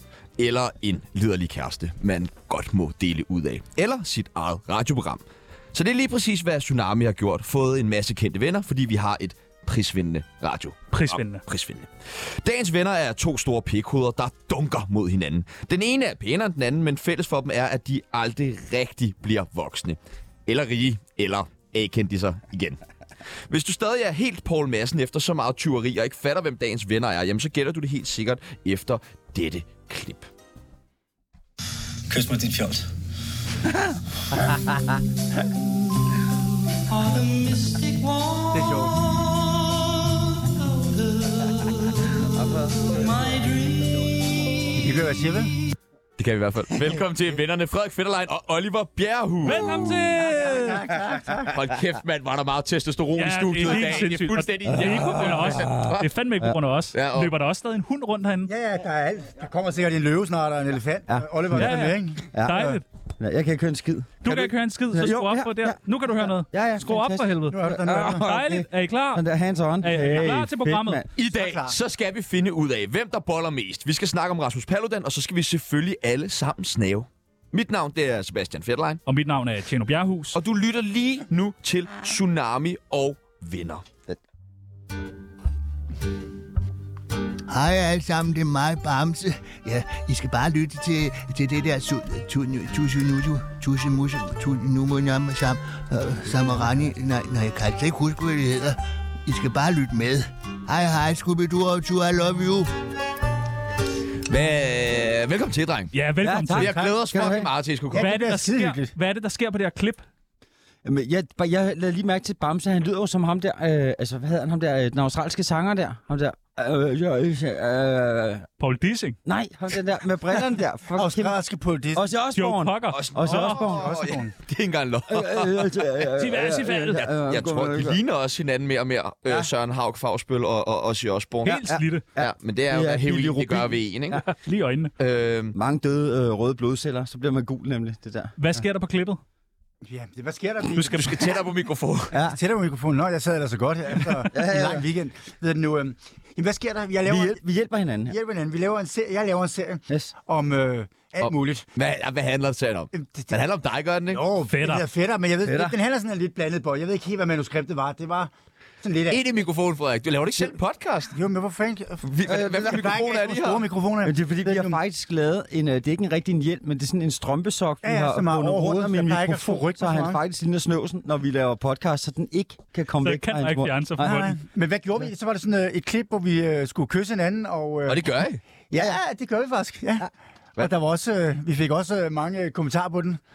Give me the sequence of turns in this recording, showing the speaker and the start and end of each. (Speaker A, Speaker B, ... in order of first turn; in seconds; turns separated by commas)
Speaker A: 0.4-11.9, Speaker B: 10.9-11.4, Speaker A: 12.4-22.8, Speaker A: 23.5-30.3, Speaker C: 32.1-32.9, Speaker C: 34.5-34.8, Speaker C: 37.4-38.0, Speaker D: 38.5-39.0, Speaker C: 42.1-44.4, Speaker D: 44.7-45.5, Speaker A: 46.2-49.8, Speaker B: 49.4-50.8, Speaker D: 50.2-51.5, Speaker A: 51.5-56.1, Speaker B: 53.2-58.5, Speaker C: 54.7-56.6, Speaker A: 56.9-57.3, Speaker D: 58.5-62.8, Speaker C: 61.1-71.1, Speaker B: 61.5-62.8, Speaker B: 64.2-69.2, Speaker D: 67.5-68.2, Speaker B: 69.8-71.0, Speaker A: 71.2-79.0, Speaker D: 71.3-71.7, Speaker B: 79.0-80.4, Speaker A: 80.3-83.8, Speaker E: 87.5-102.7, Speaker A: 104.3-105.9, Speaker B: 105.9-106.7, Speaker C: 106.2-107.5, Speaker A: 106.5-108.1, Speaker D: 106.7-108.9, Speaker B: 108.0-110.0, Speaker C: 110.8-118.5, Speaker B: 118.6-119.2, Speaker C: 119.2-121.3, Speaker D: 120.9-122.0, Speaker C: 121.9-124.0, Speaker B: 122.3-123.6, Speaker A: 122.9-126.0, Speaker D: 123.7-124.3, Speaker C: 125.1-128.0, Speaker B: 126.1-127.1, Speaker A: 127.1-131.6, Speaker B: 131.4-132.0, Speaker C: 131.5-134.2, Speaker A: 132.2-134.2, Speaker B: 134.2-134.9, Speaker A: 135.0-135.6, Speaker C: 135.5-138.3, Speaker B: 138.4-139.2, Speaker D: 139.8-141.3, Speaker A: 140.7-142.2, Speaker C: 142.1-142.4, Speaker D: 142.1-147.4, Speaker C: 144.2-144.8, Speaker C: 147.0-148.1, Speaker D: 148.1-151.7, Speaker A: 151.2-154.3, Speaker D: 152.9-153.3, Speaker D: 154.1-158.3, Speaker B: 154.4-154.8, Speaker C: 155.4-155.8, Speaker D: 158.8-159.2, Speaker A: 159.1-161.2, Speaker D: 161.1-164.8, Speaker A: 162.0-163.7, Speaker C: 162.2-162.9, Speaker C: 164.0-174.2, Speaker D: 167.8-170.2, Speaker B: 173.0-174.4, Speaker D: 174.0-178.1, Speaker A: 177.8-178.4, Speaker D: 178.7-183.2